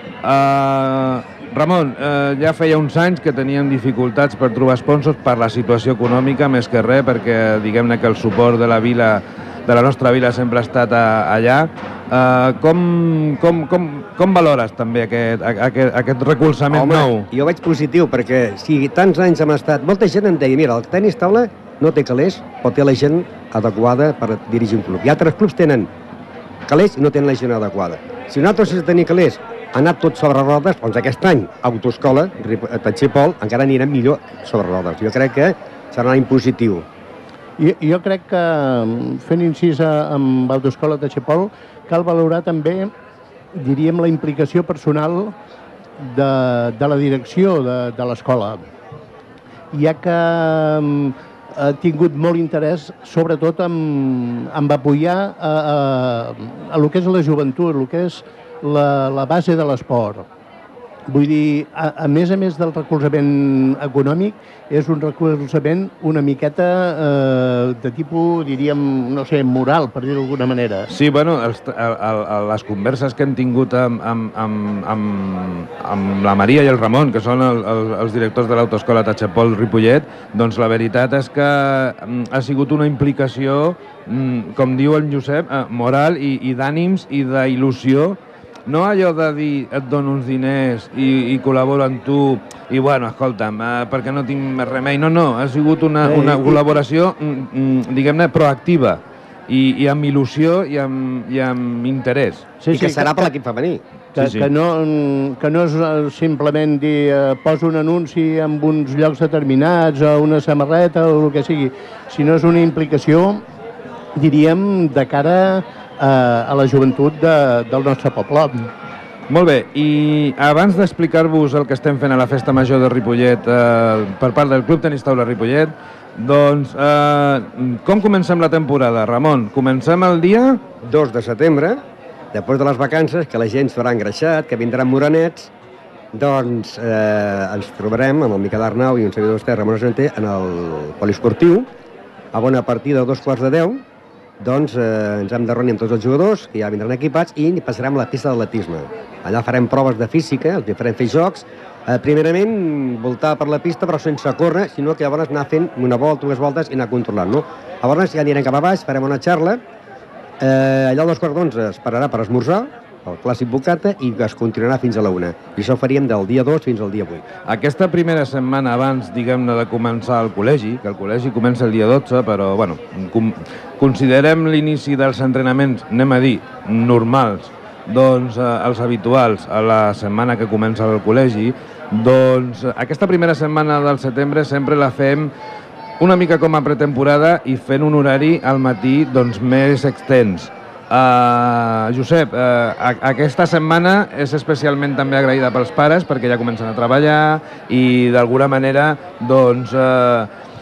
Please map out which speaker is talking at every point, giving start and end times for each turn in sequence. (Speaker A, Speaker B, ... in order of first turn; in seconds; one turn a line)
Speaker A: 0.2-17.3
Speaker B: 16.7-25.9
Speaker B: 26.7-36.9
Speaker C: 37.6-42.9
Speaker C: 43.5-45.3
Speaker C: 46.0-48.6
Speaker C: 49.7-60.2
Speaker C: 61.1-70.9
Speaker A: 70.9-102.5
Speaker C: 96.0-96.6
Speaker C: 102.6-103.2
Speaker B: 102.7-103.8
Speaker C: 104.1-113.4
Speaker A: 104.2-104.5
Speaker C: 114.2-118.7
Speaker A: 119.3-130.6
Speaker B: 130.8-131.8
Speaker B: 132.3-135.5
Speaker B: 136.1-141.7
Speaker B: 142.3-143.8
Speaker B: 144.4-159.6
Speaker B: 160.4-167.2
Speaker A: 167.4-185.3
Speaker A: 186.0-200.3